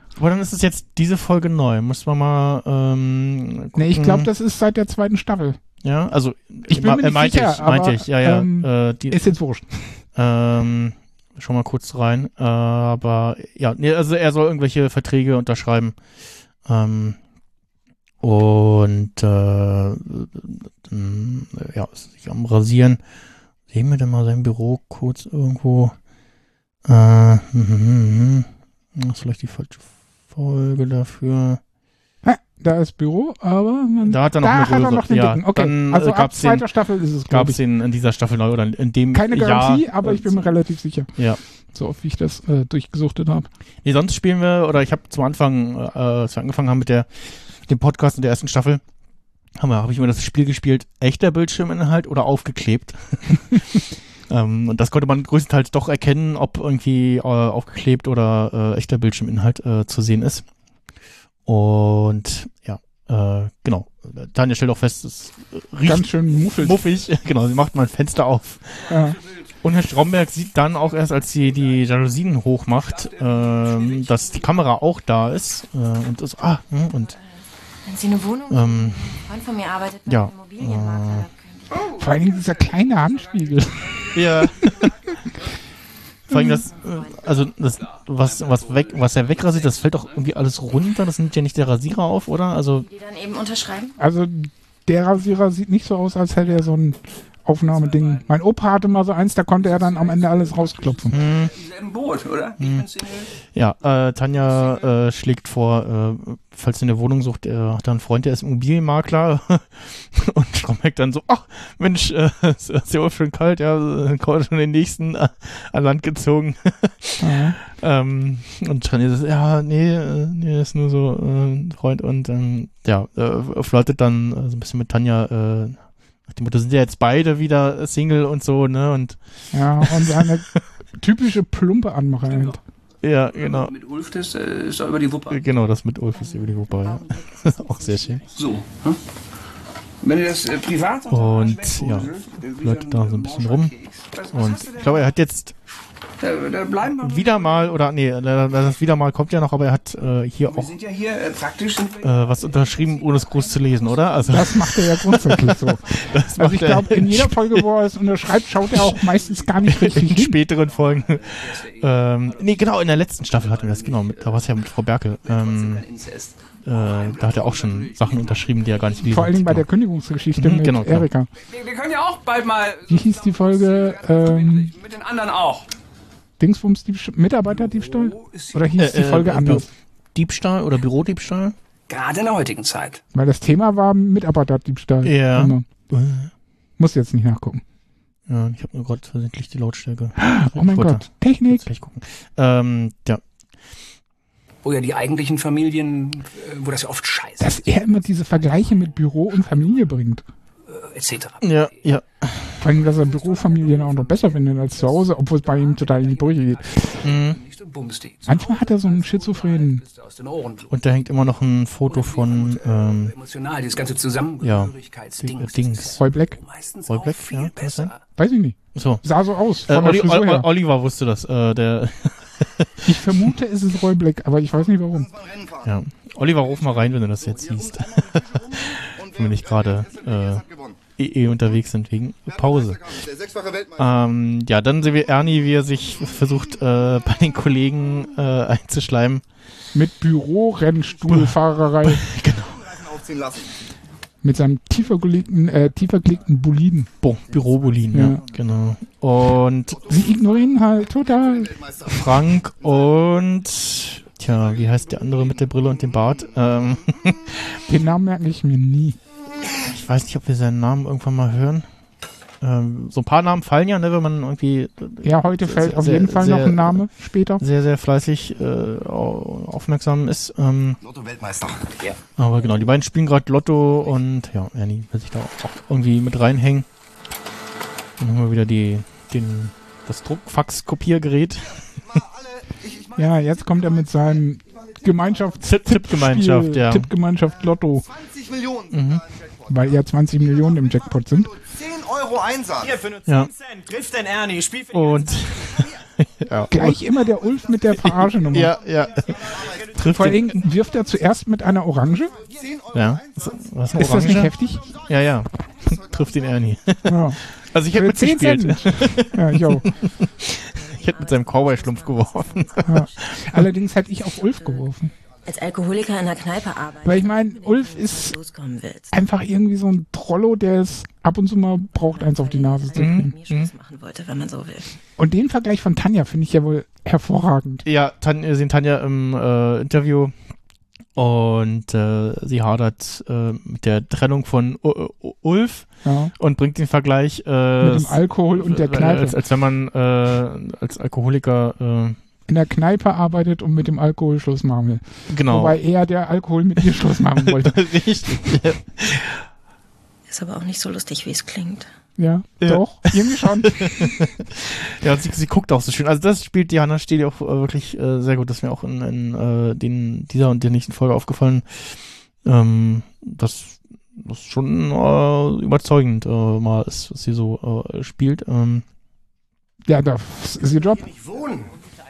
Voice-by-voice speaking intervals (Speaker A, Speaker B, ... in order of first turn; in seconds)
Speaker A: 0.1-4.3, 5.8-9.2, 10.2-15.9, 16.7-17.2, 18.2-23.0, 23.7-25.9, 26.9-31.6, 34.0-36.6, 37.3-40.5, 43.8-47.1, 47.6-48.8, 49.6-60.5, 61.5-77.2, 78.5-79.2, 80.0-81.3, 84.1-84.9, 86.3-92.8, 101.1-101.5, 102.6-102.9, 103.5-129.2, 129.8-130.6, 133.0-133.7, 135.3-138.2, 141.1-143.7, 144.3-145.5, 146.9-150.7, 152.0-157.7, 158.7-165.8, 166.6-169.7, 170.3-171.1, 178.8-181.5, 185.0-186.3, 188.3-193.2, 201.4-202.6, 207.0-207.4, 210.7-213.1, 214.4-216.0, 216.8-217.9, 218.7-219.0, 219.7-223.3, 225.6-230.4, 230.9-232.9, 233.8-239.2, 241.1-242.8, 247.0-249.9, 251.9-257.6, 259.4-261.6, 262.4-266.9, 267.4-270.8, 272.2-276.6, 278.0-281.6, 285.4-286.9, 288.7-289.0, 293.0-293.3, 294.7-296.8, 297.7-300.4, 302.7-304.3, 304.9-313.5, 322.7-323.5, 327.6-330.1, 330.9-342.0, 345.1-345.6, 346.7-349.2, 352.4-361.4, 362.2-368.6
Speaker B: 3.7-5.6, 6.7-9.7, 32.2-37.6, 39.1-41.1, 41.7-43.5, 65.8-66.8, 68.9-69.2, 82.0-84.5, 86.3-86.7, 94.0-101.2, 117.2-117.6, 129.5-130.5, 131.0-132.6, 154.3-160.5, 169.0-171.3, 172.9-174.8, 176.4-179.7, 183.1-185.7, 186.8-187.6, 190.2-191.6, 197.4-200.2, 202.6-207.0, 208.2-209.8, 216.0-216.4, 218.2-220.5, 222.8-225.1, 239.7-242.0, 244.2-246.9, 247.9-248.2, 249.9-251.6, 257.7-259.0, 265.0-267.4, 282.9-287.9, 289.5-291.3, 296.5-298.6, 299.8-302.1, 303.7-304.7, 306.9-307.2, 307.7-309.7, 312.6-314.9, 316.8-318.2, 318.9-323.1, 325.0-327.6, 335.8-336.1, 337.6-339.2, 342.3-347.6, 352.0-354.0, 369.6-370.9
Speaker C: 72.9-74.6, 81.7-85.2, 87.0-90.3, 97.6-98.4, 99.5-103.3, 104.4-104.9, 132.3-132.6, 133.3-135.4, 138.3-139.0, 140.0-145.1, 146.2-147.7, 150.4-154.5, 159.1-159.9, 160.4-164.5, 165.2-169.0, 171.4-175.7, 177.5-178.6, 181.9-183.0, 194.6-197.8, 200.6-201.8, 202.6-210.8, 211.9-218.0
Speaker D: 77.0-82.1, 87.0-87.2, 92.8-94.0, 136.1-138.4, 309.6-313.2, 314.2-314.7, 315.2-318.9, 321.7-324.7, 350.1-351.7
Speaker E: 224.9-230.8, 232.3-233.9, 242.3-243.5, 248.0-248.3, 249.7-253.0, 254.3-255.3, 270.8-271.7, 281.5-285.4, 287.7-292.8, 299.0-299.8, 302.1-306.5
Speaker F: 292.6-295.6, 370.5-371.6